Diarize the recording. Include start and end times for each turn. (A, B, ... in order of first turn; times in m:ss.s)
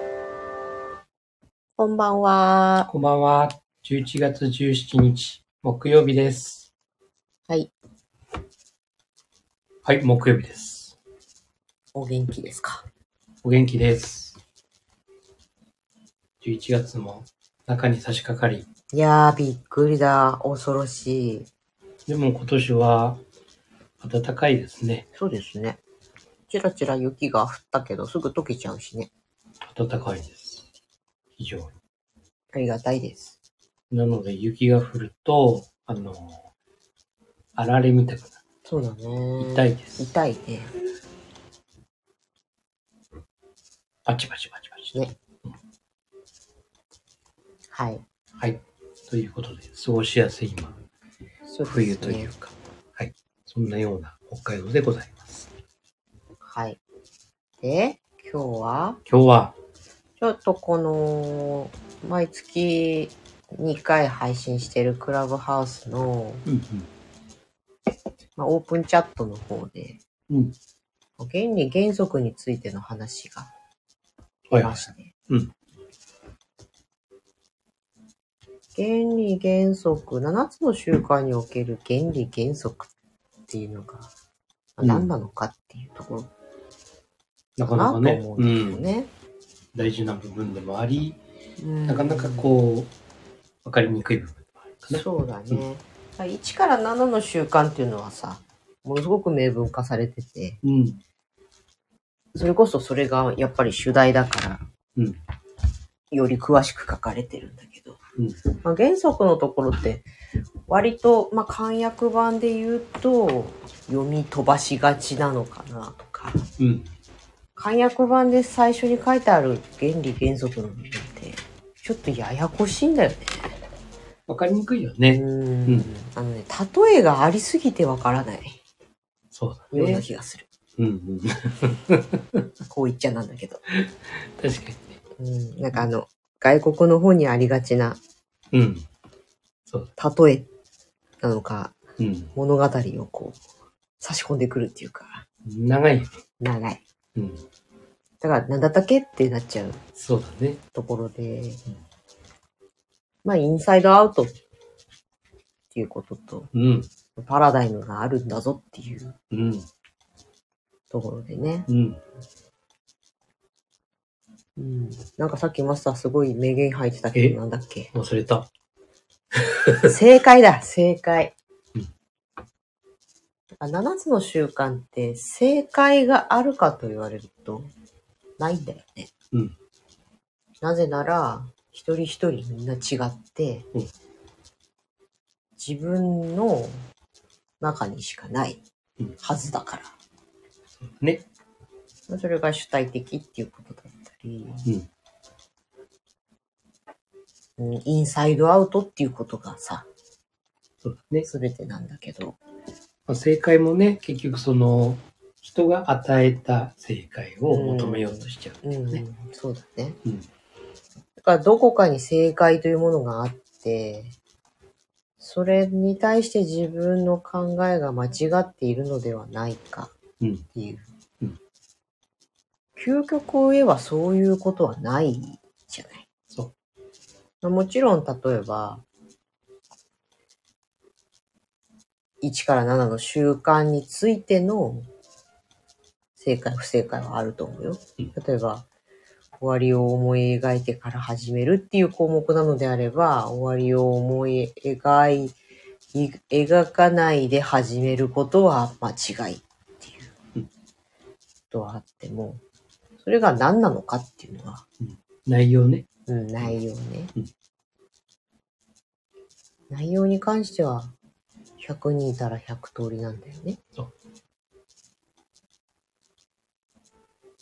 0:01.8-0:02.9 A
0:02.9-0:06.7 B
0:09.8-0:11.0 B
0:12.0-0:12.9 A
0:13.4-0:14.4 B
0:16.4-0:18.7 B
0:18.9-0:21.5 A
0:22.1-0:23.2 B
0:24.0-0:25.1 B
0:25.2-0:25.8 A
0:26.5-0:29.1 A
0:29.6-0:30.7 B
0:31.4-0:31.8 B
0:32.5-0:33.4 A
0:33.9-0:36.5 B
0:37.6-0:38.4 B
0:38.7-0:40.7 A
0:39.4-0:40.1 B
0:44.1-0:45.6 B
0:47.7-0:48.0 A
0:48.4-0:50.8 B
0:51.5-0:52.3 A
0:51.6-0:55.5 B
0:56.4-0:56.8 A
0:57.6-0:59.0 A
0:59.1-0:59.6 B
1:00.2-1:06.5 A
1:06.5-1:06.9 B
1:08.4-1:10.0 A
1:10.3-1:10.6 B
1:11.2-1:13.5 A
1:14.5-1:15.5 B
1:14.6-1:15.1 A
1:18.8-1:22.9 A
1:23.5-1:24.1 A
1:24.8-1:26.3 A
1:24.8-1:25.1 B
1:27.6-1:28.9 B
1:27.6-1:29.1 A
1:29.7-1:31.2 B
1:31.6-1:32.5 A
1:31.9-1:32.9 B
1:33.6-1:35.6 B
1:34.9-1:40.6 A
1:40.6-1:41.0 B
1:42.4-1:44.6 A
1:46.1-1:50.1 A
1:50.7-1:56.5 A
1:56.6-1:56.9 B
1:57.6-2:03.5 A
2:04.3-2:05.9 B
2:05.1-2:08.6 A
2:09.3-2:10.0 B
2:09.7-2:10.5 A
2:10.8-2:12.5 B
2:12.7-2:13.6 A
2:13.7-2:15.0 B
2:15.2-2:18.0 A
2:18.5-2:18.9 B
2:20.0-2:20.5 A
2:21.2-2:21.8 A
2:22.0-2:22.3 B
2:22.3-2:23.4 A
2:24.0-2:25.2 A
2:25.4-2:26.2 B
2:26.4-2:26.8 A
2:27.2-2:27.4 B
2:28.2-2:29.8 A
2:30.0-2:30.6 B
2:30.7-2:31.6 A
2:33.2-2:34.4 A
2:35.7-2:36.5 A
2:36.5-2:36.9 B
2:37.2-2:39.2 A
2:39.3-2:39.7 B
2:40.9-2:41.7 A
2:41.7-2:42.0 B
2:44.6-2:47.9 A
2:47.9-2:48.5 B
2:49.3-2:49.9 B
2:49.8-2:51.3 A
2:53.5-2:57.7 A
2:58.4-2:59.1 A
3:00.6-3:03.7 A
3:05.6-3:06.8 A
3:07.6-3:08.6 A
3:09.2-3:09.9 A
3:10.8-3:11.3 B
3:12.1-3:14.7 A
3:17.6-3:19.9 A
3:20.8-3:21.3 B
3:21.2-3:22.4 A
3:23.1-3:29.0 B
3:27.5-3:30.0 A
3:31.2-3:34.2 A
3:35.2-3:39.9 A
3:40.2-3:40.5 B
3:40.5-3:40.9 A
3:42.8-3:46.1 A
3:47.4-3:48.8 A
3:52.2-3:54.9 A
3:56.2-3:58.7 A
3:59.4-4:05.4 A
4:05.9-4:10.1 A
4:11.5-4:12.4 A
4:13.0-4:14.7 A
4:14.8-4:15.9 B
4:16.1-4:17.1 A
4:19.7-4:21.0 A
4:21.6-4:23.6 A